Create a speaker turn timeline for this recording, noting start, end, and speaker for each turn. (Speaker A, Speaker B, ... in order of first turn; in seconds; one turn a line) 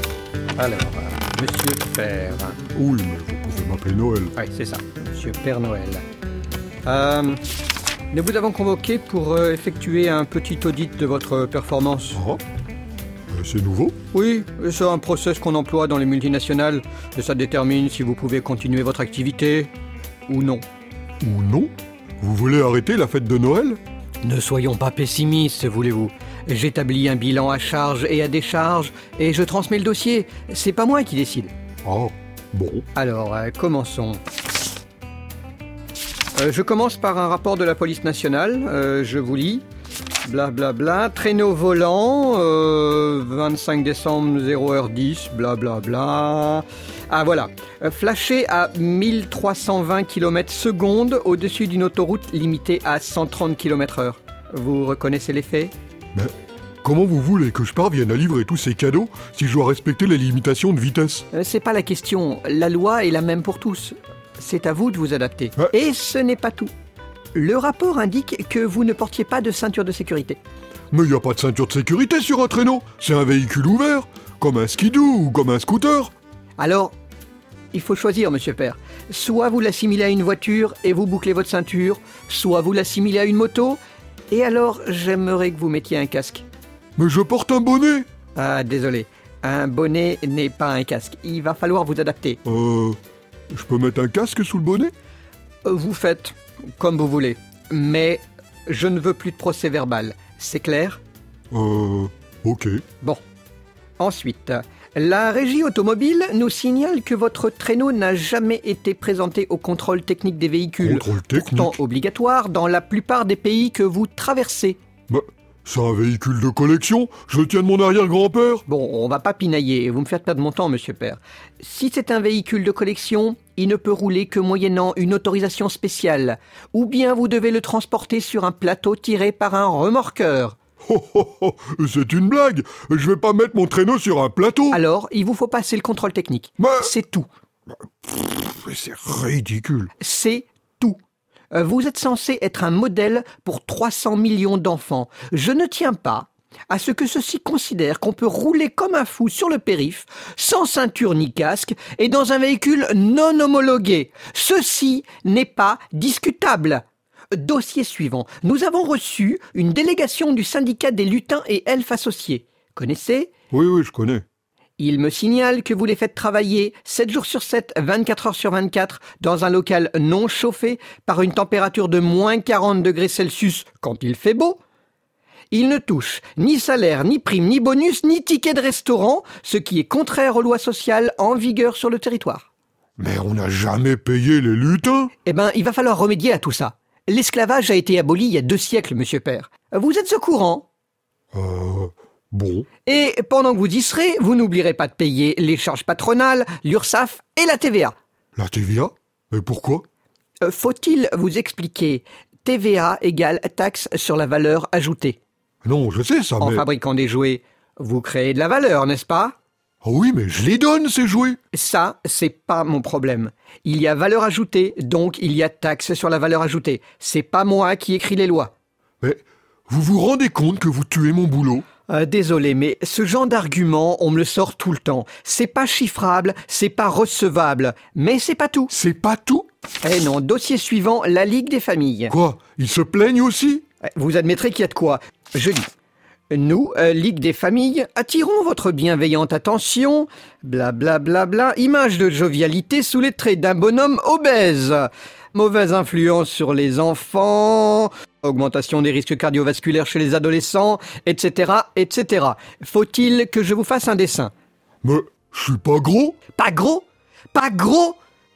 Speaker A: 0.6-2.6
Speaker B: 2.8-4.3
Speaker A: 4.4-6.0
Speaker A: 6.8-7.4
Speaker A: 8.1-12.2
Speaker B: 12.2-12.4
Speaker B: 13.3-14.0
Speaker A: 14.1-19.7
Speaker A: 20.3-20.6
Speaker B: 21.2-23.8
Speaker A: 24.2-31.5
Speaker B: 31.9-32.9
Speaker A: 33.0-34.2
Speaker A: 36.4-39.6
Speaker A: 40.2-55.7
Speaker B: 56.8-61.2
Speaker A: 61.3-66.7
Speaker A: 67.3-70.4
Speaker B: 70.9-76.1
Speaker A: 76.6-76.9
Speaker A: 77.7-83.8
Speaker A: 84.3-86.5
Speaker B: 87.0-88.1
Speaker A: 88.4-92.4
Speaker B: 92.5-93.0
Speaker B: 93.5-94.9
Speaker A: 95.6-101.0
Speaker B: 101.5-102.8
Speaker A: 104.0-114.8
Speaker B: 110.8-111.8
Speaker B: 115.1-118.6
Speaker A: 118.7-130.6
Speaker B: 130.8-134.8
Speaker A: 134.7-137.3
Speaker B: 136.6-136.9
Speaker B: 138.1-139.9
Speaker A: 140.0-141.0
Speaker A: 141.5-163.3
Speaker B: 163.5-164.2
Speaker A: 164.8-174.6
Speaker A: 175.5-182.5
Speaker B: 183.0-185.1
Speaker A: 185.2-190.7
Speaker B: 191.3-192.7
Speaker A: 192.9-197.9
Speaker B: 198.4-199.8
Speaker A: 200.4-205.2
Speaker B: 205.6-206.7
Speaker A: 206.4-209.4
Speaker B: 209.8-211.4
Speaker A: 211.5-218.5
Speaker B: 219.0-221.7
Speaker A: 221.9-228.7
Speaker B: 228.7-229.5
Speaker A: 229.8-232.1
Speaker B: 232.1-233.6
Speaker A: 233.8-235.7
Speaker A: 236.3-254.3
Speaker B: 254.8-256.2
Speaker A: 256.3-258.0